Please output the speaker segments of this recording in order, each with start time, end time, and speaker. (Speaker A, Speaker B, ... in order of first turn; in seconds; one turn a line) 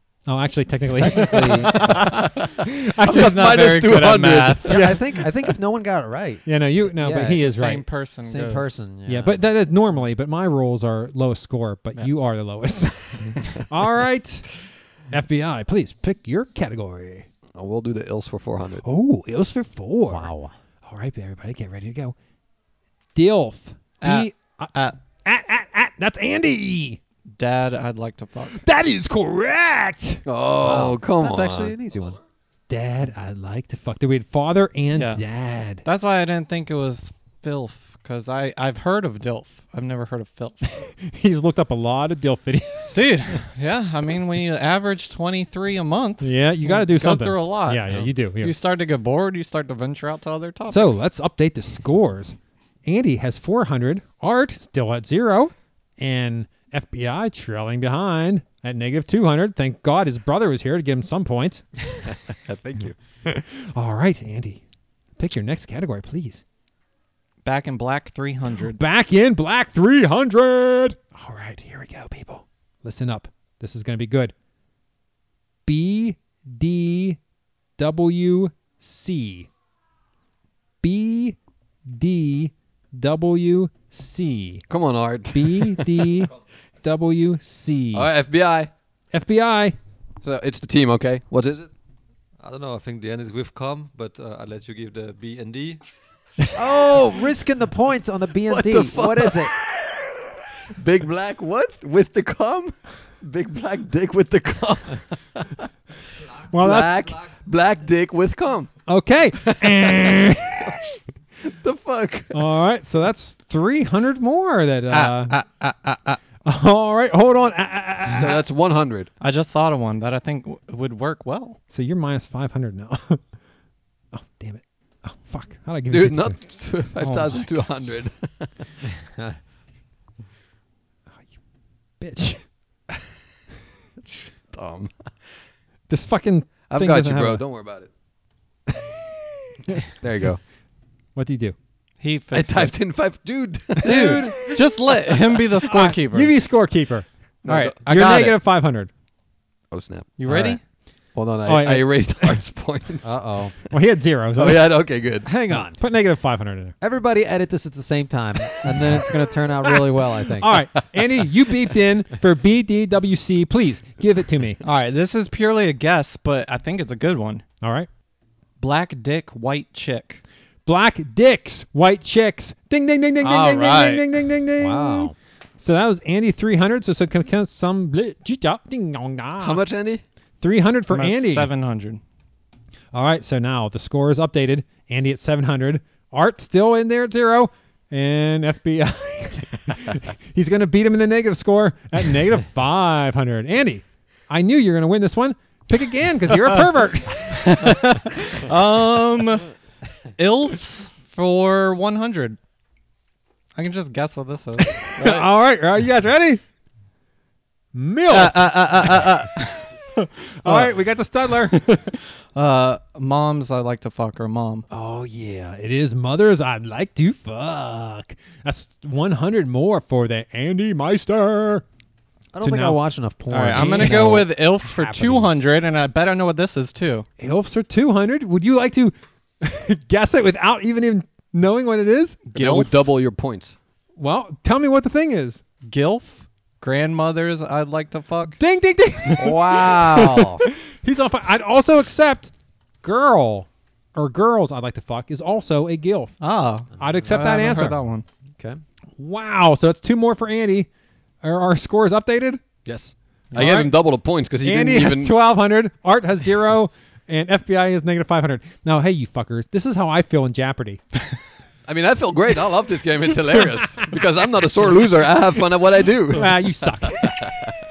Speaker A: 0.3-2.0
Speaker B: 1.1-1.9
Speaker C: 1.7-4.8
Speaker A: 2.8-3.6
Speaker D: 3.0-4.8
Speaker A: 4.7-5.0
Speaker B: 4.7-7.5
Speaker A: 6.5-7.8
Speaker D: 7.4-8.8
Speaker B: 8.2-9.4
Speaker A: 9.1-14.6
Speaker A: 15.1-17.2
Speaker C: 17.5-18.8
Speaker A: 18.8-20.3
Speaker B: 20.1-20.5
Speaker A: 20.8-22.1
Speaker A: 23.1-27.0
Speaker D: 24.0-25.0
Speaker D: 27.3-28.6
Speaker A: 28.5-30.2
Speaker C: 30.2-31.8
Speaker B: 30.6-32.2
Speaker A: 32.7-35.8
Speaker D: 34.9-40.7
Speaker A: 40.8-43.4
Speaker D: 42.9-51.0
Speaker A: 46.2-48.6
Speaker A: 50.7-61.7
Speaker C: 62.1-63.3
Speaker A: 63.6-64.6
Speaker A: 65.2-66.4
Speaker D: 67.4-68.8
Speaker A: 68.6-74.3
Speaker A: 75.6-77.2
Speaker A: 77.8-79.5
Speaker A: 80.8-84.7
Speaker C: 84.7-86.0
Speaker A: 85.3-86.3
Speaker A: 86.8-88.1
Speaker C: 87.9-88.7
Speaker A: 89.1-89.8
Speaker C: 90.2-91.7
Speaker E: 92.4-95.8
Speaker B: 96.5-99.5
Speaker C: 98.5-100.2
Speaker C: 100.7-105.7
Speaker A: 106.5-107.1
Speaker C: 106.5-108.8
Speaker A: 108.9-110.7
Speaker C: 109.4-110.8
Speaker C: 111.4-112.4
Speaker A: 112.3-115.3
Speaker D: 114.9-116.2
Speaker A: 116.4-118.4
Speaker C: 118.1-119.1
Speaker D: 119.2-121.6
Speaker A: 121.7-123.2
Speaker A: 124.1-126.4
Speaker C: 125.9-128.6
Speaker D: 127.0-127.5
Speaker A: 132.0-132.5
Speaker C: 134.1-135.4
Speaker A: 135.9-137.4
Speaker C: 136.7-137.9
Speaker A: 138.7-139.0
Speaker C: 140.0-140.4
Speaker A: 141.1-141.6
Speaker D: 142.0-142.7
Speaker C: 142.3-144.4
Speaker A: 143.8-144.6
Speaker D: 143.8-146.3
Speaker A: 145.7-147.1
Speaker C: 147.4-147.8
Speaker D: 147.4-148.3
Speaker A: 147.8-148.9
Speaker C: 149.7-150.5
Speaker D: 150.2-150.6
Speaker C: 151.1-153.7
Speaker A: 151.4-152.4
Speaker B: 153.0-153.6
Speaker A: 153.7-154.9
Speaker C: 154.4-155.3
Speaker B: 155.2-155.8
Speaker A: 155.5-156.7
Speaker B: 156.8-160.6
Speaker A: 160.4-164.6
Speaker D: 164.6-167.4
Speaker A: 167.6-167.9
Speaker D: 168.6-170.2
Speaker A: 170.7-179.6
Speaker D: 173.2-174.0
Speaker B: 174.6-175.1
Speaker C: 179.4-180.0
Speaker A: 180.4-181.5
Speaker D: 180.9-182.0
Speaker A: 182.9-198.0
Speaker D: 198.2-199.5
Speaker D: 200.2-202.4
Speaker D: 203.6-205.3
Speaker A: 204.6-206.4
Speaker A: 207.7-209.1
Speaker D: 208.1-210.7
Speaker A: 210.4-211.6
Speaker D: 211.5-214.7
Speaker A: 214.7-221.6
Speaker B: 222.3-225.4
Speaker A: 222.4-222.8
Speaker D: 223.3-227.1
Speaker A: 223.5-224.3
Speaker A: 227.2-232.7
Speaker D: 232.3-232.7
Speaker C: 232.3-233.6
Speaker A: 233.9-235.4
Speaker D: 235.6-238.4
Speaker A: 238.4-240.1
Speaker B: 239.2-240.4
Speaker A: 240.7-246.2
Speaker D: 246.2-248.0
Speaker A: 246.8-247.8
Speaker A: 249.0-250.7
Speaker A: 251.2-252.4
Speaker C: 252.6-255.1
Speaker A: 253.3-253.7
Speaker A: 254.4-260.8
Speaker C: 261.7-267.3
Speaker A: 266.1-267.4